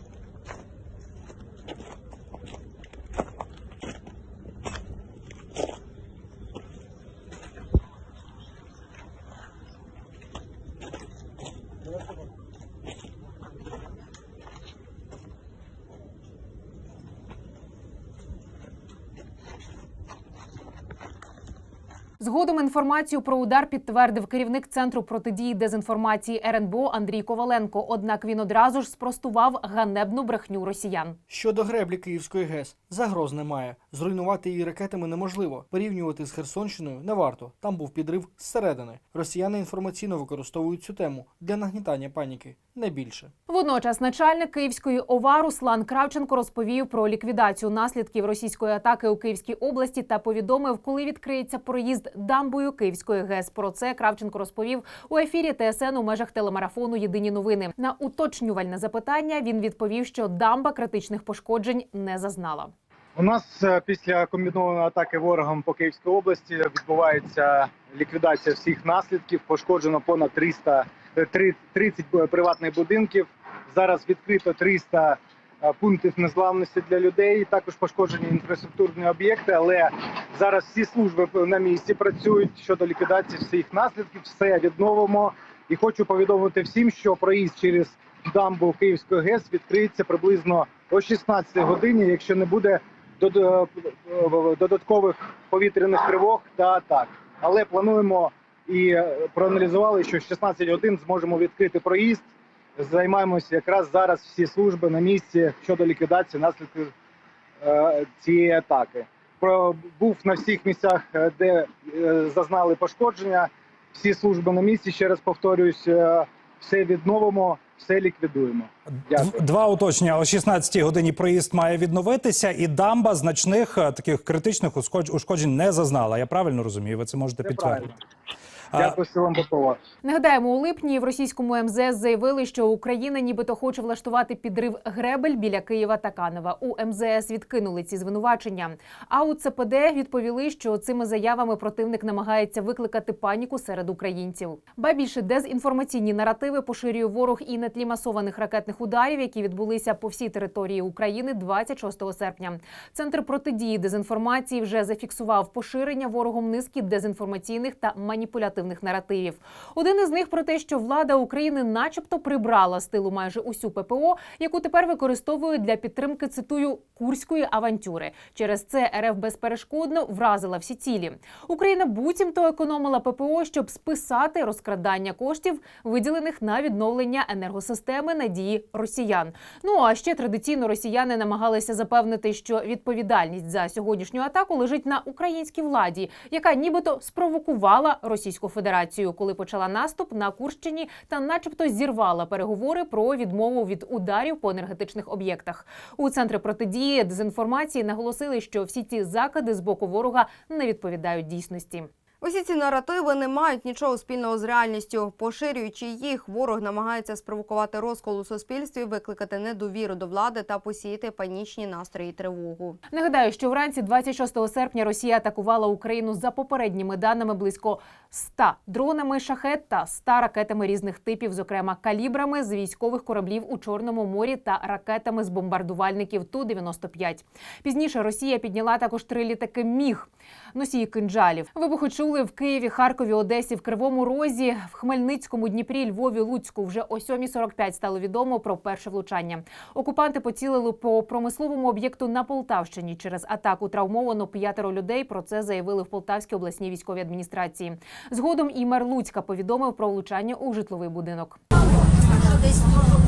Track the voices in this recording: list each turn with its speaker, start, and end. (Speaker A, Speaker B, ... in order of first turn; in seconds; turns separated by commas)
Speaker A: 22.2-31.2, Speaker B: 31.3-43.3, Speaker A: 43.5-62.7, Speaker C: 63.1-102.2, Speaker C: 102.8-106.9, Speaker C: 107.6-119.5, Speaker D: 119.1-127.9, Speaker C: 127.4-128.0, Speaker D: 128.7-129.0, Speaker C: 128.7-129.8, Speaker A: 130.0-201.9, Speaker E: 202.2-212.8, Speaker A: 212.9-251.4